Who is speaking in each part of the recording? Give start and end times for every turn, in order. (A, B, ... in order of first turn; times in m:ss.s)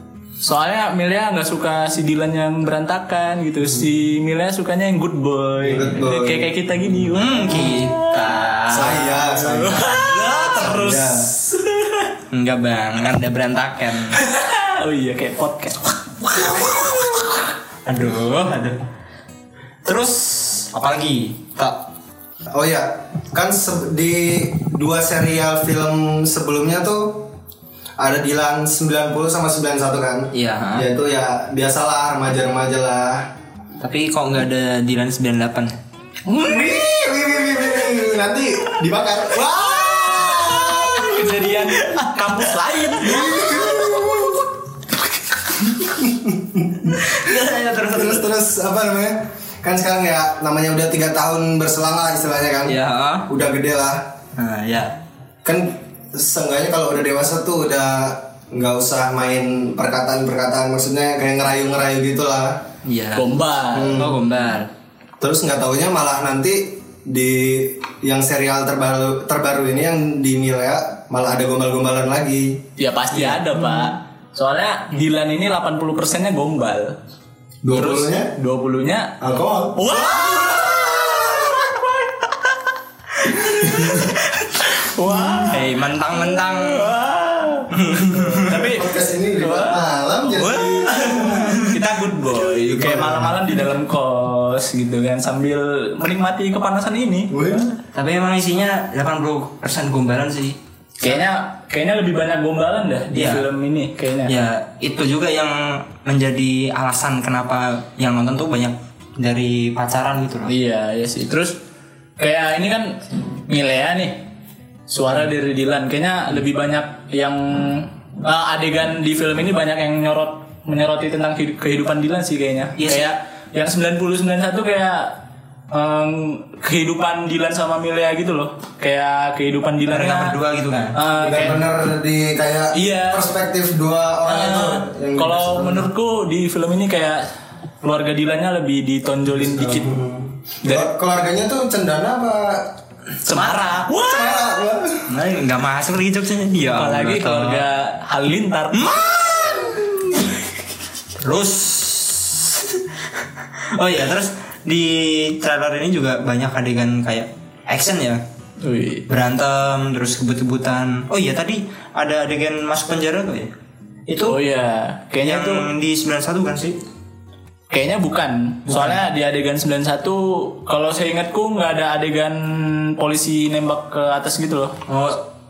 0:00.4-0:12.1 A
0:05.6-0:06.5 B
0:07.1-0:09.1 C
0:08.7-0:10.0 B
0:10.1-0:10.6 C
0:10.5-0:11.3 B
0:12.3-0:14.2 C
0:14.1-0:17.4 A
0:16.3-0:16.9 C
0:17.8-0:18.8 C
0:19.8-0:21.8 C
0:22.5-0:27.3 B
0:28.0-0:33.2 B
0:30.3-0:30.9 C
0:33.8-0:35.8 C
0:36.3-0:36.8 A
0:36.3-0:41.3 B
0:39.6-0:43.6 A
0:43.0-0:44.4 B
0:46.0-0:46.8 B
0:46.8-0:48.2 C
0:47.9-0:54.0 B
0:52.6-0:53.3 C
0:54.4-0:55.0 C
0:55.4-1:02.6 B
1:02.8-1:04.7 C
1:03.1-1:04.0 A
1:03.7-1:04.2 B
1:05.2-1:12.6 B
1:12.8-1:17.0 A
1:13.1-1:13.5 C
1:13.5-1:13.9 B
1:17.6-1:18.3 B
1:17.7-1:19.1 A
1:19.2-1:21.2 B
1:19.7-1:22.5 A
1:23.2-1:27.7 A
1:23.6-1:24.0 B
1:25.1-1:25.4 B
1:25.4-1:27.0 C
1:27.7-1:28.7 C
1:28.4-1:31.5 B
1:28.5-1:37.7 A
1:30.8-1:31.8 C
1:32.7-1:33.5 B
1:37.3-1:37.7 B
1:37.9-1:41.2 C
1:41.0-1:44.3 A
1:43.1-1:43.4 C
1:44.2-1:50.5 C
1:50.4-1:51.6 A
1:52.2-1:54.2 A
1:54.9-2:05.1 A
2:02.8-2:03.1 C
2:05.7-2:10.4 A
2:09.9-2:11.0 C
2:10.9-2:11.6 A
2:11.2-2:15.9 B
2:12.7-2:13.3 A
2:14.2-2:17.2 A
2:17.8-2:19.9 A
2:19.3-2:22.6 B
2:20.6-2:20.9 A
2:23.2-2:24.5 A
2:23.6-2:25.0 B
2:25.1-2:27.6 C
2:26.7-2:28.9 A
2:28.7-2:30.2 C
2:31.2-2:32.8 C
2:33.7-2:38.2 C
2:38.6-2:39.0 A
2:39.1-2:43.5 C
2:44.1-2:44.4 C
2:44.3-2:45.7 A
2:45.2-2:46.8 C
2:47.7-2:54.8 A
2:48.7-2:49.0 C
2:54.9-2:55.2 C